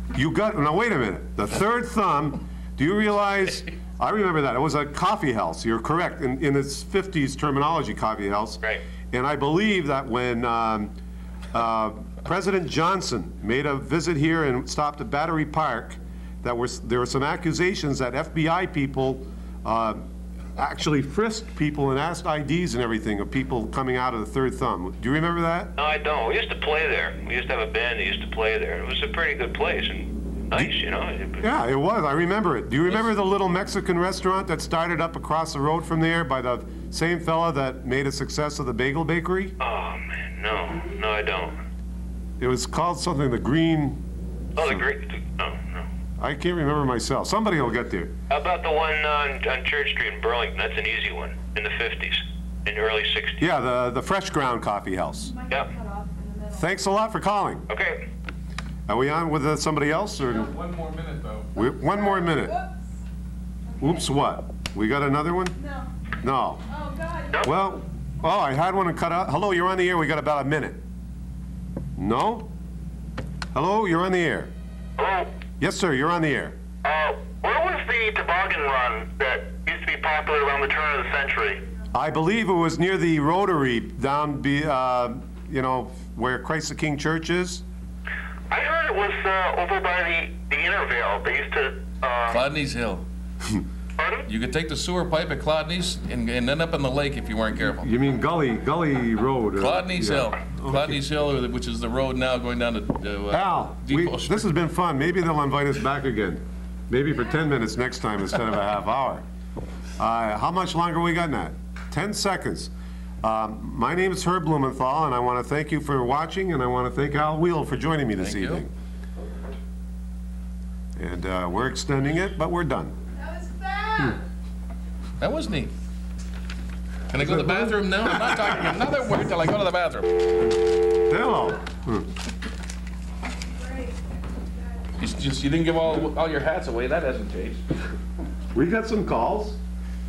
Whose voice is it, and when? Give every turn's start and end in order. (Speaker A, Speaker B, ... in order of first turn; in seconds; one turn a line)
Speaker A: 0.1-10.9
Speaker A: 11.5-20.0
Speaker A: 20.6-25.7
Speaker B: 25.8-31.5
Speaker A: 31.4-39.5
Speaker B: 39.6-41.6
Speaker A: 42.4-44.0
Speaker B: 44.6-45.9
Speaker A: 44.6-44.9
Speaker A: 46.2-48.1
Speaker B: 48.3-53.5
Speaker A: 53.4-55.3
Speaker C: 55.2-56.7
Speaker A: 56.5-57.7
Speaker B: 57.7-58.1
Speaker A: 58.9-60.5
Speaker D: 60.4-61.5
Speaker A: 61.6-62.6
Speaker C: 61.6-63.0
Speaker C: 63.7-64.1
Speaker A: 63.8-65.6
Speaker C: 65.5-65.9
Speaker A: 66.2-66.6
Speaker C: 66.7-67.6
Speaker A: 67.4-70.8
Speaker A: 72.0-72.5
Speaker A: 73.5-74.5
Speaker E: 75.0-75.3
Speaker A: 75.6-76.6
Speaker E: 76.8-81.6
Speaker A: 81.9-87.6
Speaker E: 88.5-92.4
Speaker D: 92.3-93.0
Speaker E: 94.0-94.2
Speaker D: 94.3-97.9
Speaker A: 97.8-100.9
Speaker D: 99.6-104.5
Speaker A: 103.3-109.2
Speaker A: 110.0-112.7
Speaker A: 113.2-118.7
Speaker D: 118.2-118.6
Speaker A: 121.0-122.9
Speaker C: 123.1-124.2
Speaker D: 125.2-125.7
Speaker D: 127.1-130.2
Speaker A: 127.2-128.7
Speaker A: 131.1-132.1
Speaker C: 133.4-134.9
Speaker D: 135.0-137.7
Speaker A: 138.5-139.6